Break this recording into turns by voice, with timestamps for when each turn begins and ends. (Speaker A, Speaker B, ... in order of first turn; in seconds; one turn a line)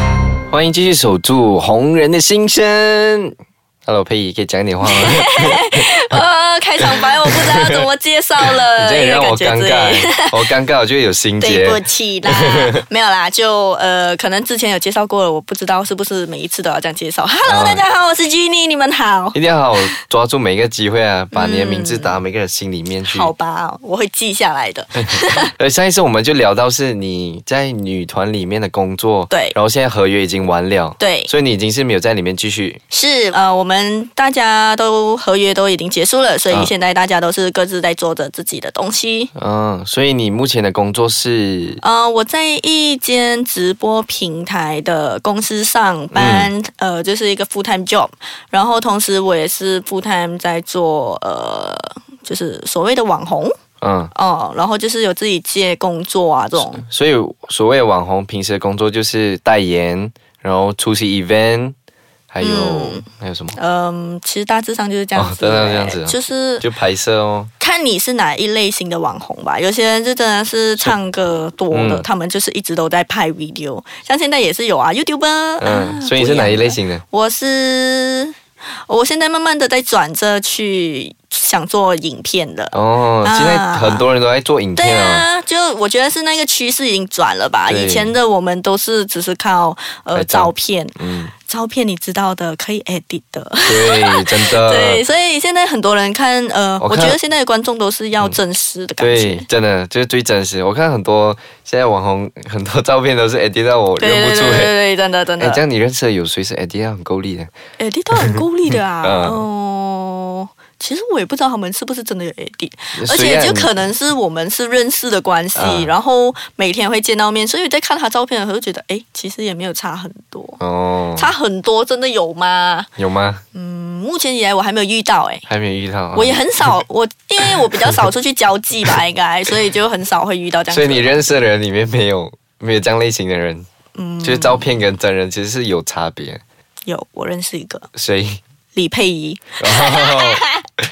Speaker A: 0.5-3.3
Speaker A: 3.9-5.6
Speaker B: 4.8-10.3
Speaker A: 6.8-7.9
Speaker A: 8.4-12.8
Speaker B: 11.4-20.0
Speaker A: 17.4-17.8
Speaker A: 19.3-23.3
Speaker B: 21.3-22.2
Speaker B: 23.1-25.5
Speaker A: 25.1-32.8
Speaker B: 29.3-29.6
Speaker B: 31.0-31.3
Speaker B: 32.9-39.3
Speaker A: 39.3-41.8
Speaker B: 41.8-53.5
Speaker A: 46.1-46.5
Speaker A: 53.8-54.1
Speaker B: 54.1-56.8
Speaker A: 56.6-61.7
Speaker A: 62.3-63.6
Speaker B: 62.4-66.6
Speaker A: 65.2-67.5
Speaker B: 67.6-84.0
Speaker A: 71.7-72.0
Speaker A: 75.6-77.0
Speaker A: 82.7-85.2
Speaker B: 84.8-99.5
Speaker A: 87.7-88.2
Speaker A: 90.1-91.3
Speaker A: 93.6-95.0
Speaker A: 96.8-97.2
Speaker A: 99.0-104.7
Speaker B: 104.0-105.6
Speaker A: 105.4-107.5
Speaker B: 107.8-120.6
Speaker A: 109.0-109.4
Speaker A: 113.0-113.7
Speaker A: 115.5-115.9
Speaker A: 120.6-121.3
Speaker B: 121.2-122.9
Speaker A: 123.0-123.4
Speaker B: 123.5-125.4
Speaker A: 125.5-126.7
Speaker B: 126.1-131.1
Speaker A: 130.7-133.7
Speaker B: 133.9-134.7
Speaker A: 134.2-136.4
Speaker B: 136.9-137.9
Speaker A: 137.9-138.4
Speaker B: 138.7-140.7
Speaker A: 139.6-140.4